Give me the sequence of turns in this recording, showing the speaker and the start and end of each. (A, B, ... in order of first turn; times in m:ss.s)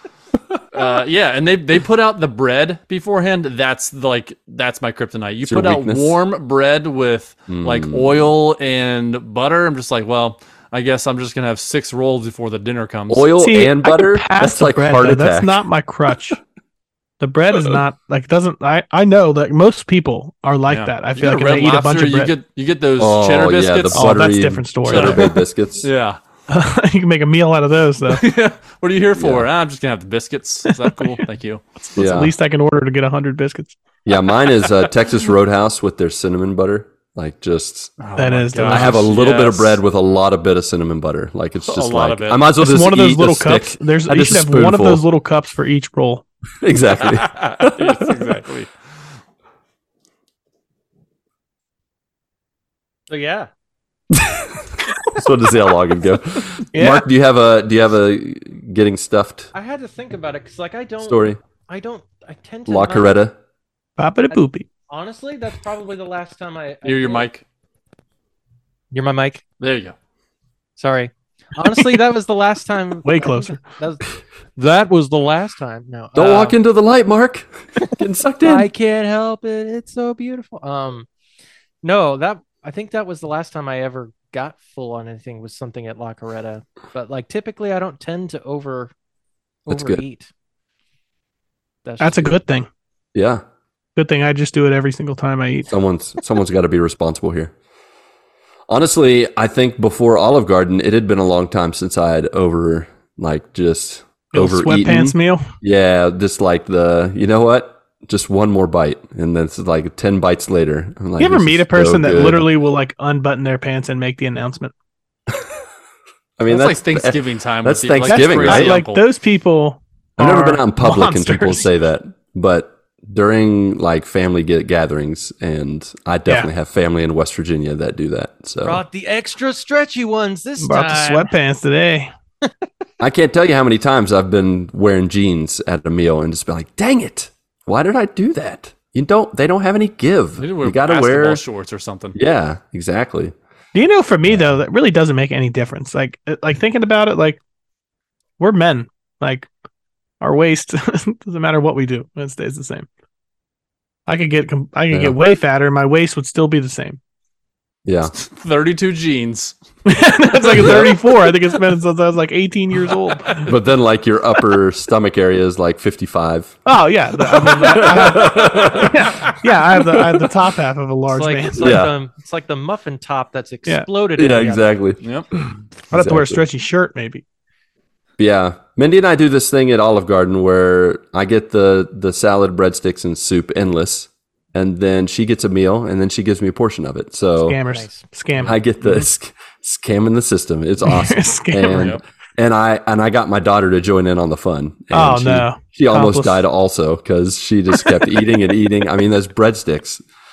0:00.7-0:13.3 A
0:05.5-0:06.2 B
0:07.5-0:08.3 B
0:13.1-0:15.6 B
0:13.4-0:16.4 C
0:17.2-0:22.3 C
0:20.7-0:24.2 A
0:23.0-0:25.9 B
0:23.9-0:25.3 C
0:24.9-0:26.2 A
0:26.5-0:28.2 C
0:28.1-0:31.8 A
0:29.2-0:29.5 B
0:30.7-0:31.1 C
0:32.0-0:33.8 C
0:32.0-0:32.3 B
0:34.0-0:37.9 B
0:38.0-0:39.8 A
0:38.2-0:39.0 C
0:38.6-0:45.0 B
0:41.7-0:42.4 A
0:42.6-0:46.2 C
0:46.6-0:48.4 B
0:47.0-0:48.7 A
0:53.1-0:53.5 D
0:54.1-0:59.5 B
0:56.7-0:57.1 C
0:59.5-1:03.2 D
1:01.0-1:01.4 B
1:02.7-1:03.4 B
1:04.0-1:04.7 C
1:04.3-1:07.3 D
1:06.8-1:07.4 A
1:08.9-1:09.4 D
1:09.6-1:10.0 A
1:10.8-1:16.6 D
1:13.0-1:13.6 C
1:16.2-1:18.7 B
1:18.4-1:21.1 D
1:21.8-1:28.9 D
1:29.7-1:30.3 D
1:29.7-1:30.0 B
1:31.8-1:32.3 D
1:32.0-1:32.7 C
1:33.2-1:33.4 B
1:34.0-1:35.7 C
1:35.7-1:37.5 B
1:38.7-1:52.5 B
1:44.3-1:45.5 C
1:51.2-1:54.7 C
1:56.4-1:58.8 B
1:56.5-1:59.0 A
1:58.1-2:01.7 C
2:00.2-2:08.8 B
2:08.6-2:11.3 D
2:10.6-2:12.1 C
2:13.0-2:21.4 B
2:20.4-2:22.2 A
2:22.2-2:23.3 B
2:23.7-2:27.4 C
2:28.4-2:29.5 C
2:30.2-2:32.9 C
2:34.1-2:37.0 C
2:37.8-2:38.1 B
2:38.1-2:39.6 A
2:39.9-2:43.5 C
2:40.5-2:40.9 A
2:40.6-2:40.9 B
2:43.5-2:46.6 B
2:46.6-2:51.8 C
2:47.4-2:49.2 B
2:47.7-2:48.9 A
2:51.1-2:54.7 D
2:51.6-2:51.9 B
2:54.2-2:56.4 B
2:55.0-2:55.3 A
2:55.9-2:57.2 C
2:58.2-3:07.6 B
3:07.4-3:08.6 C
3:07.7-3:08.1 D
3:08.4-3:20.0 B
3:10.8-3:12.0 C
3:11.7-3:12.0 A
3:14.9-3:16.4 C